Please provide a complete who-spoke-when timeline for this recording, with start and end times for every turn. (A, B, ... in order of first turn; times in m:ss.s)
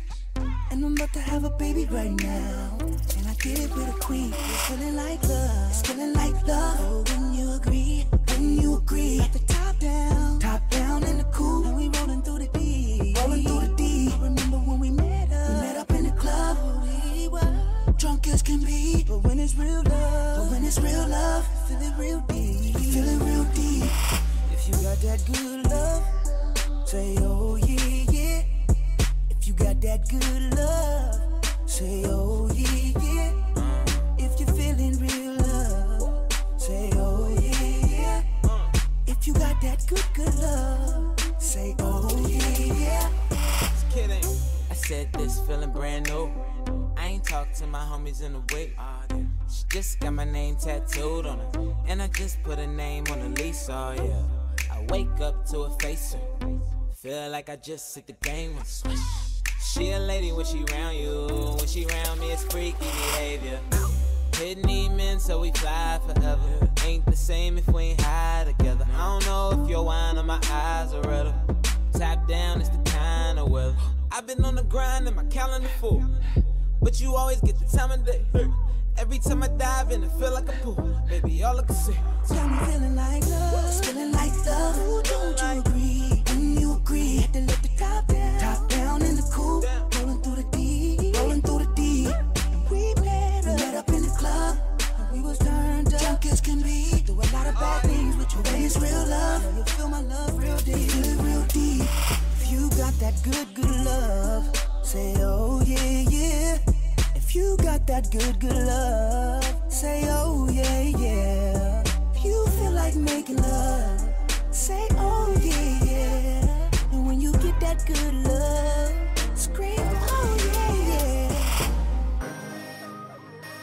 0:00.7-0:24.0 A
0:24.5-0:26.1 A
0:26.8-0:28.5 A
0:29.3-0:33.4 A
0:33.6-0:34.0 B
0:34.2-0:38.2 A
0:39.0-0:43.1 A
0:43.7-0:46.4 B
0:46.9-0:56.3 B
0:56.9-0:59.0 B
0:59.6-1:03.6 B
1:04.3-1:16.1 B
1:16.8-1:22.2 B
1:22.2-1:46.6 A
1:25.0-1:25.6 B
1:29.6-1:29.8 B
1:37.5-1:38.1 B
1:47.1-2:01.6 A